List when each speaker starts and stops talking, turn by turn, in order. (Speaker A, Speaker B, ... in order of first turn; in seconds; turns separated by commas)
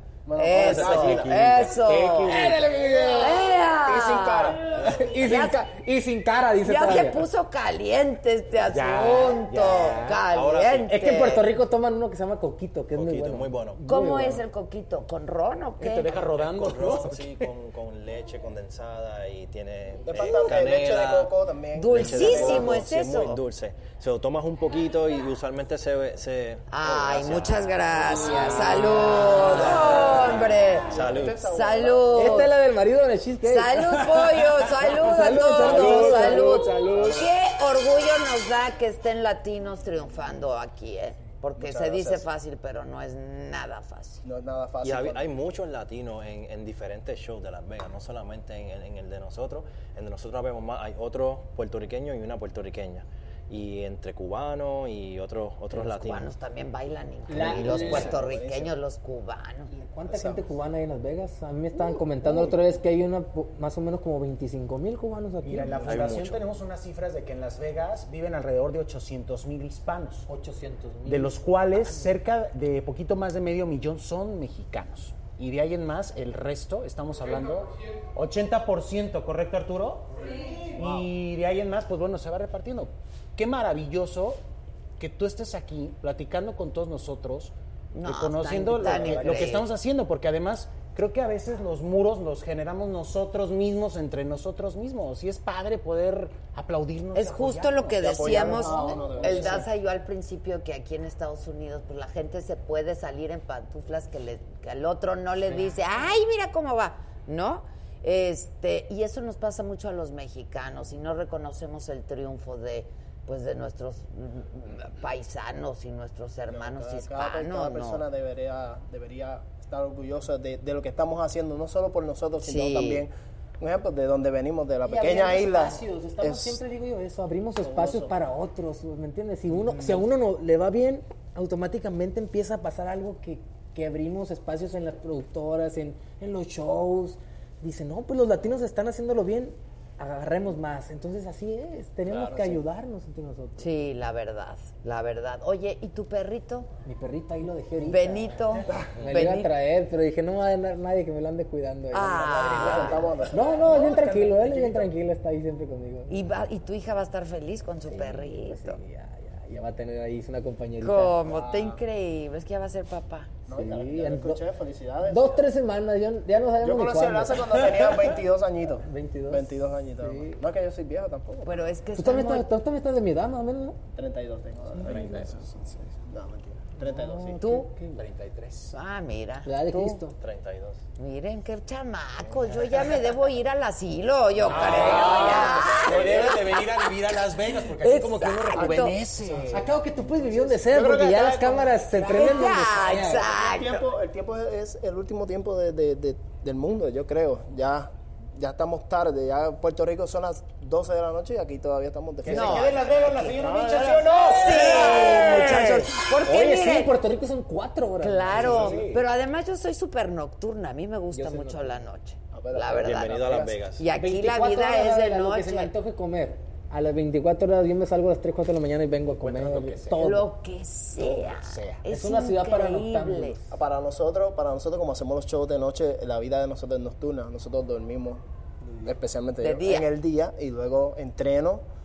Speaker A: 0.2-1.7, Speaker B: 0.4-2.5, Speaker C: 0.5-1.7, Speaker D: 1.0-2.8, Speaker E: 2.2-3.5, Speaker A: 2.9-3.3, Speaker B: 3.2-5.6, Speaker A: 3.9-4.7, Speaker E: 4.7-7.2, Speaker B: 6.6-11.5, Speaker D: 8.7-10.2, Speaker C: 10.3-11.1, Speaker E: 10.9-14.4, Speaker C: 12.9-13.8, Speaker B: 13.8-16.1, Speaker D: 15.8-17.4, Speaker C: 16.3-21.3, Speaker A: 20.0-22.9, Speaker B: 20.1-20.5, Speaker B: 21.7-23.4, Speaker C: 21.9-31.4, Speaker B: 26.7-32.5, Speaker A: 30.9-32.5, Speaker E: 32.1-34.2, Speaker B: 33.4-44.2, Speaker E: 35.0-37.1, Speaker D: 35.4-37.0, Speaker A: 36.8-37.3, Speaker A: 41.6-42.2, Speaker A: 44.2-45.3, Speaker C: 44.8-56.3, Speaker B: 55.7-59.7, Speaker E: 57.3-58.2, Speaker A: 57.3-58.7, Speaker E: 59.7-66.3, Speaker A: 60.1-60.5, Speaker A: 61.8-62.6, Speaker D: 65.4-70.3, Speaker C: 65.8-66.4, Speaker E: 70.3-72.1, Speaker D: 71.0-84.4, Speaker A: 80.7-81.0, Speaker D: 85.0-99.5, Speaker B: 87.9-89.7, Speaker A: 88.9-89.5, Speaker B: 97.1-118.0, Speaker A: 98.0-99.7, Speaker A: 116.5-126.6, Speaker B: 122.4-123.0, Speaker E: 124.8-143.7, Speaker A: 127.6-128.1, Speaker A: 142.1-142.6, Speaker B: 143.6-146.7, Speaker E: 146.8-156.2, Speaker B: 147.8-149.5, Speaker B: 151.9-153.1, Speaker A: 152.2-154.3, Speaker D: 153.6-154.8, Speaker B: 156.1-158.8, Speaker E: 157.9-161.3, Speaker B: 160.8-163.3, Speaker A: 161.2-161.8, Speaker A: 163.5-165.5, Speaker E: 163.5-164.4, Speaker E: 165.0-167.9, Speaker A: 166.6-171.7, Speaker E: 168.8-170.4, Speaker B: 171.4-172.5, Speaker E: 171.9-173.8, Speaker A: 173.9-177.4, Speaker E: 174.8-175.3, Speaker E: 176.8-178.0, Speaker B: 177.4-177.7, Speaker D: 177.9-178.7, Speaker B: 178.7-180.0, Speaker E: 179.4-180.1, Speaker C: 180.1-180.8, Speaker B: 181.0-186.9, Speaker D: 184.4-189.7, Speaker A: 184.9-186.3, Speaker E: 185.2-185.5, Speaker B: 187.8-189.0, Speaker A: 188.6-189.6, Speaker E: 189.5-193.3, Speaker A: 190.2-192.3, Speaker B: 191.9-193.8, Speaker A: 193.2-204.3, Speaker D: 202.2-205.8, Speaker B: 202.3-202.8, Speaker B: 204.3-207.0, Speaker E: 204.5-208.8, Speaker B: 208.0-215.7, Speaker D: 208.3-209.0, Speaker E: 211.1-211.8, Speaker A: 212.3-213.6, Speaker C: 212.8-213.8, Speaker E: 213.9-220.3, Speaker D: 219.2-220.2, Speaker B: 220.0-223.4, Speaker D: 221.0-221.8, Speaker E: 221.8-223.5, Speaker A: 223.5-228.2, Speaker E: 228.7-228.9, Speaker A: 228.8-231.6, Speaker B: 229.4-229.9